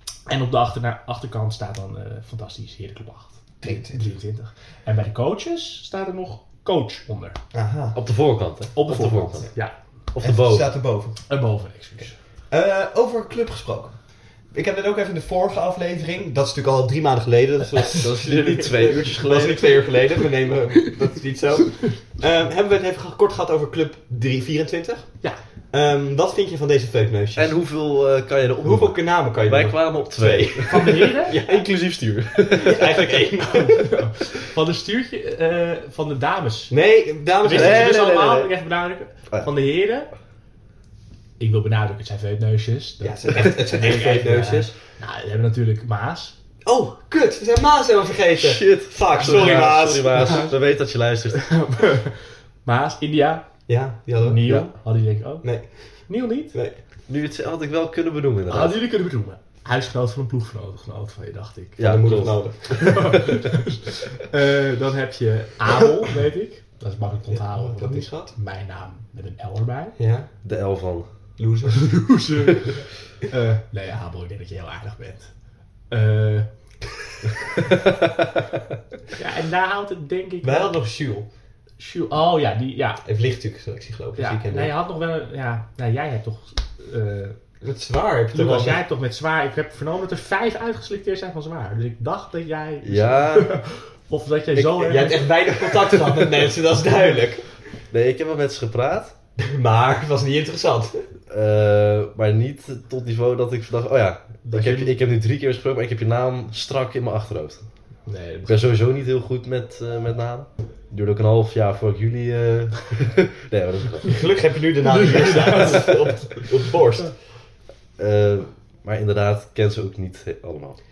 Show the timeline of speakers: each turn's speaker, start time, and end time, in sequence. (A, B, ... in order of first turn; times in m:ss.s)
0:00.3-0:07.4 A
0:03.6-0:04.2 B
0:07.5-0:08.0 B
0:08.0-0:09.5 C
0:08.7-0:09.7 A
0:10.1-0:10.7 C
0:10.2-0:11.2 B
0:11.3-0:12.2 A
0:12.5-0:27.6 B
0:17.8-0:19.7 C
0:27.4-0:32.9 C
0:28.6-0:31.6 B
0:30.7-0:31.4 A
0:32.6-0:34.0 B
0:33.4-0:36.7 A
0:36.7-0:38.0 B
0:37.4-0:40.1 A
0:37.5-0:38.5 C
0:41.4-0:46.3 A
0:43.0-0:44.7 B
0:46.6-0:50.5 B
0:48.3-0:51.6 C
0:49.2-0:50.5 A
0:51.3-0:53.5 A
0:53.7-0:54.5 B
0:54.2-0:55.5 A
0:55.4-0:56.0 B
0:56.0-0:56.6 A
0:56.5-0:56.8 B
0:57.1-0:58.8 C
0:58.5-1:01.8 A
1:01.8-1:02.5 C
1:01.8-1:03.2 B
1:02.8-1:10.0 A
1:07.3-1:08.3 B
1:10.0-1:10.3 B
1:10.4-1:11.0 C
1:11.4-1:12.1 B
1:11.7-1:15.3 A
1:15.9-1:16.5 A
1:19.1-1:20.7 A
1:20.4-1:21.3 B
1:21.8-1:23.0 A
1:23.0-1:24.7 B
1:24.2-1:27.4 A
1:27.6-1:28.8 B
1:28.3-1:35.7 A
1:32.8-1:33.5 C
1:34.6-1:35.0 C
1:34.8-1:37.5 B
1:37.9-1:39.1 C
1:39.4-1:41.0 B
1:41.3-1:47.6 C
1:44.4-1:44.9 A
1:48.0-1:48.7 A
1:48.5-1:54.2 C
1:54.0-1:57.1 B
1:54.8-1:56.4 A
1:58.0-2:00.8 C